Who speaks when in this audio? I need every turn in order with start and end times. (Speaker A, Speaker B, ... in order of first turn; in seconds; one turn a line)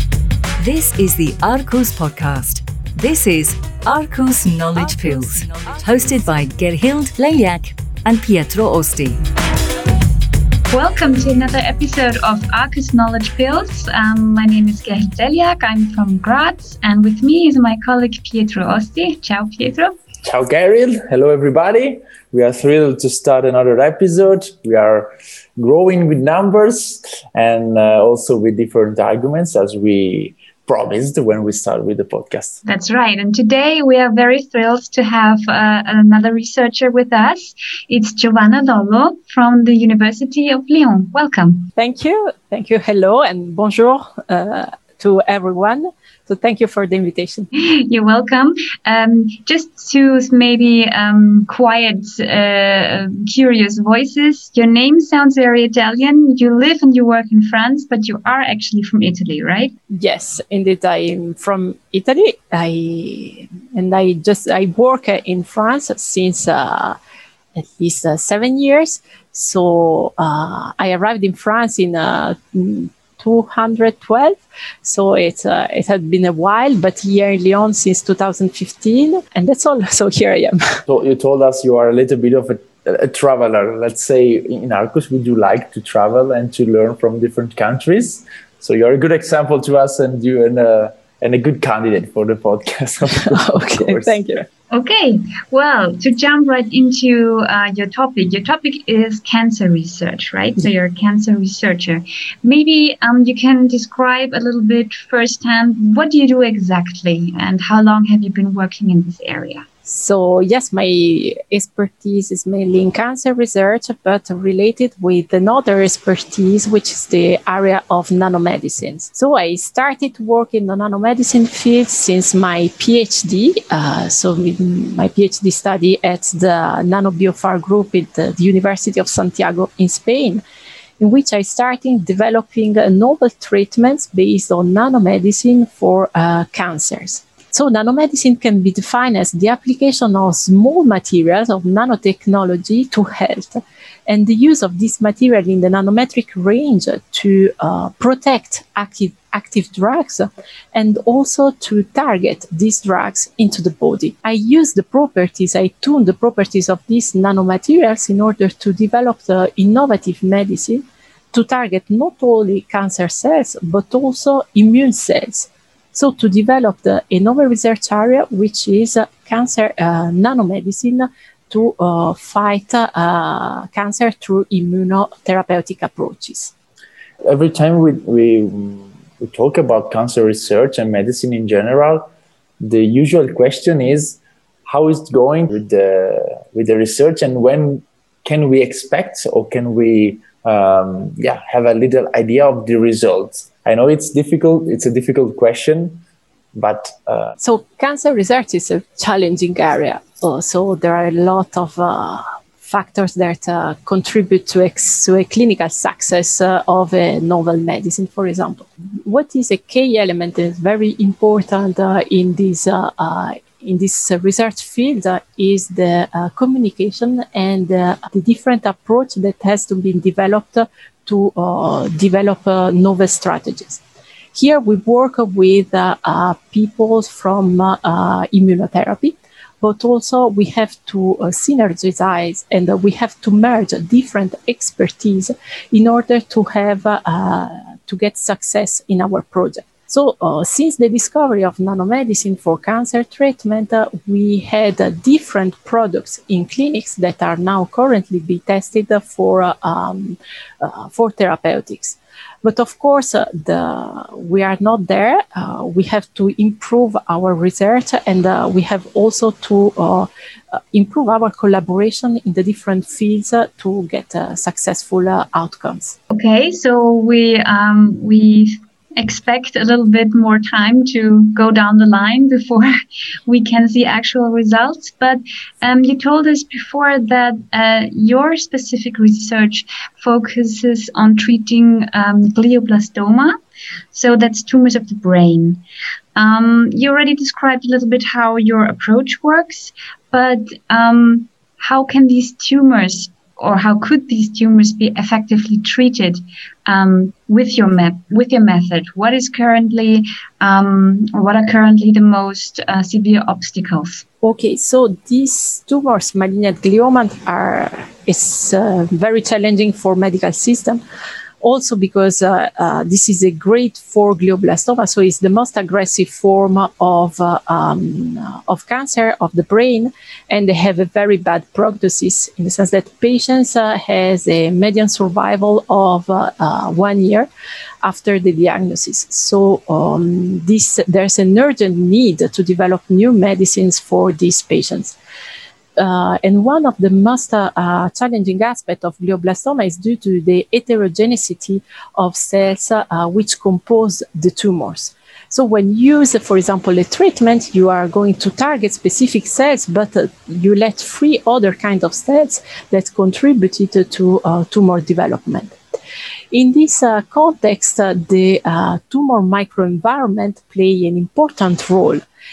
Speaker A: 0.6-9.2
Speaker B: 10.7-19.9
Speaker C: 20.2-32.6
Speaker B: 32.6-41.7
Speaker D: 41.8-47.5
Speaker B: 47.6-59.7
Speaker D: 59.9-67.0
Speaker D: 67.6-80.8
Speaker C: 80.9-94.4
Speaker D: 93.1-94.4
Speaker B: 94.7-109.6
Speaker D: 109.8-130.4
Speaker D: 131.0-176.5
Speaker C: 177.3-182.1
Speaker C: 182.6-196.0
Speaker C: 196.6-197.3
Speaker D: 197.4-223.8
Speaker D: 224.3-266.0
Speaker B: 266.1-272.7
Speaker B: 273.3-283.3
Speaker B: 283.9-285.6
Speaker B: 286.1-304.0
Speaker D: 304.2-310.8
Speaker D: 311.4-327.3
Speaker D: 327.8-334.9
Speaker D: 335.8-355.5
Speaker D: 356.3-362.0